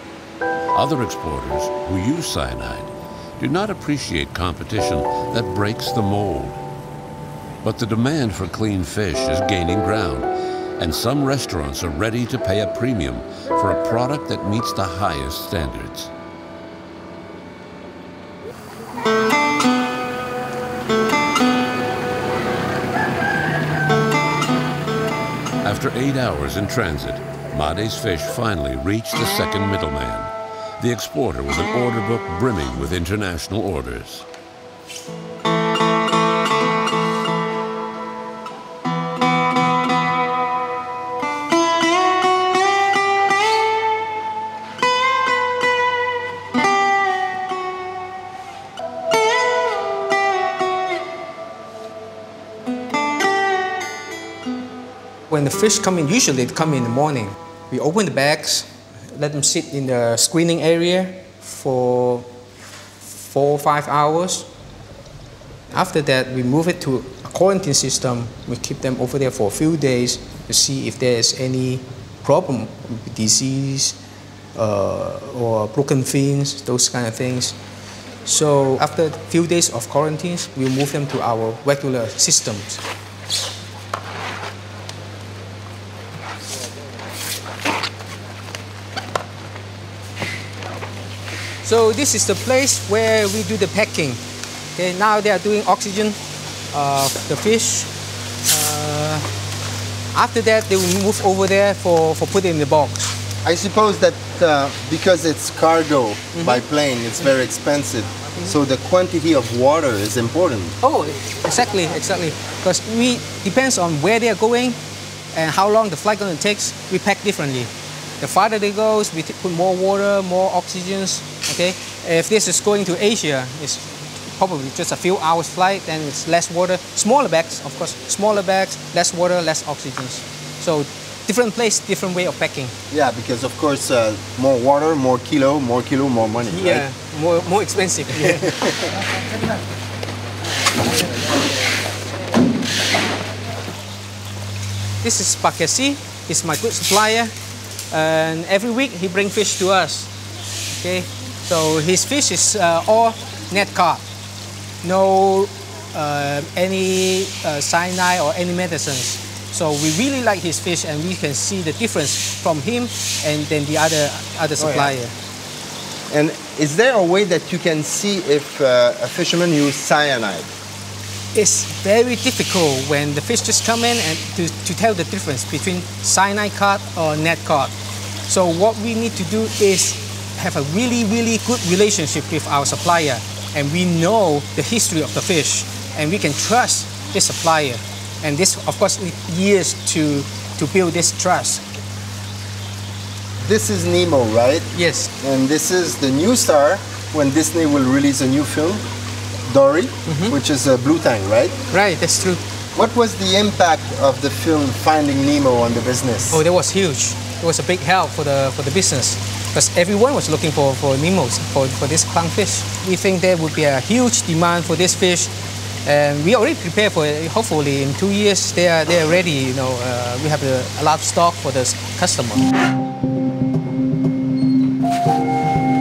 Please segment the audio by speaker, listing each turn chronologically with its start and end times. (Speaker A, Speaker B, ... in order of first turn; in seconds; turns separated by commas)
Speaker A: 0.7-6.6, Speaker A: 7.6-16.1, Speaker A: 25.6-34.2, Speaker B: 55.3-62.3, Speaker B: 63.0-64.5, Speaker B: 65.7-74.0, Speaker B: 74.5-77.6, Speaker B: 78.2-82.8, Speaker B: 91.6-94.2, Speaker B: 94.8-96.2, Speaker B: 96.7-97.9, Speaker B: 98.5-99.3, Speaker B: 100.1-103.2, Speaker C: 103.4-110.8, Speaker B: 106.3-106.7, Speaker B: 110.8-114.8, Speaker B: 115.3-132.7, Speaker C: 132.9-136.8, Speaker B: 136.5-138.4, Speaker B: 145.0-147.3, Speaker B: 147.9-150.1, Speaker B: 150.8-154.0, Speaker B: 154.8-165.1, Speaker C: 164.6-164.9, Speaker C: 166.1-170.5, Speaker B: 171.3-177.7, Speaker B: 178.3-191.6, Speaker C: 193.4-194.7, Speaker B: 194.7-195.1, Speaker C: 195.2-198.8, Speaker C: 199.5-201.6, Speaker B: 200.1-200.4, Speaker B: 201.7-202.4, Speaker C: 202.8-206.4, Speaker B: 206.3-215.3, Speaker B: 215.8-222.4